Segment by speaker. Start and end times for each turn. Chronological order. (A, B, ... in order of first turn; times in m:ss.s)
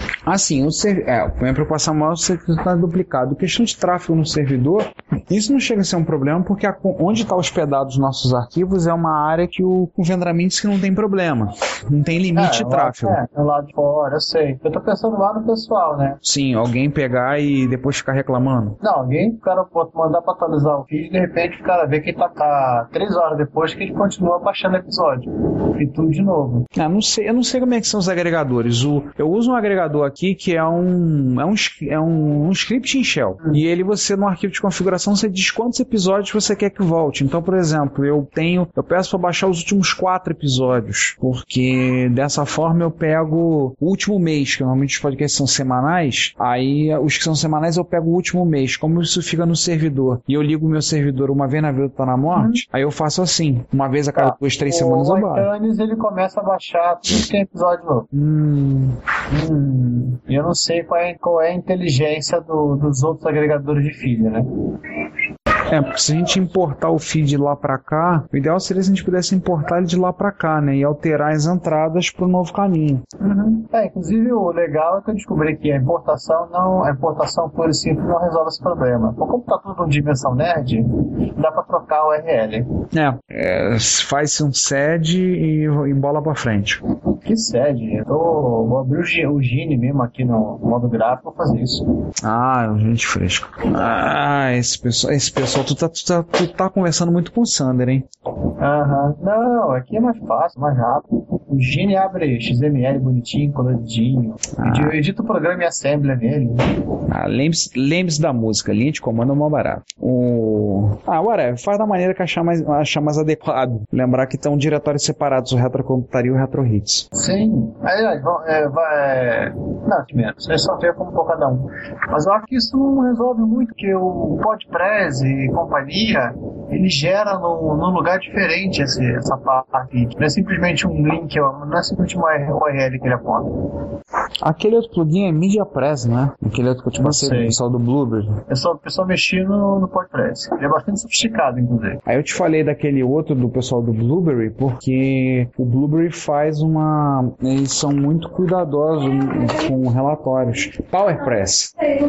0:00.3-0:13.2 A
0:12.4-0:16.2 B
0:16.2-0:18.8 A
0:18.8-0:26.7 B
0:26.8-0:55.5 A
0:52.3-0:52.6 B
0:54.2-0:58.1 B
0:58.1-0:59.0 A
0:59.3-1:04.5 B
1:05.7-1:13.0 A
1:13.2-1:22.7 B
1:22.9-1:26.8 A
1:27.2-1:31.8 B
1:32.2-1:38.1 A
1:38.6-1:46.6 B
1:44.6-1:45.0 A
1:47.1-1:57.1 A
1:57.2-2:13.5 B
2:14.4-2:18.4 A
2:17.0-2:17.6 B
2:18.5-2:22.0 B
2:22.1-2:31.7 A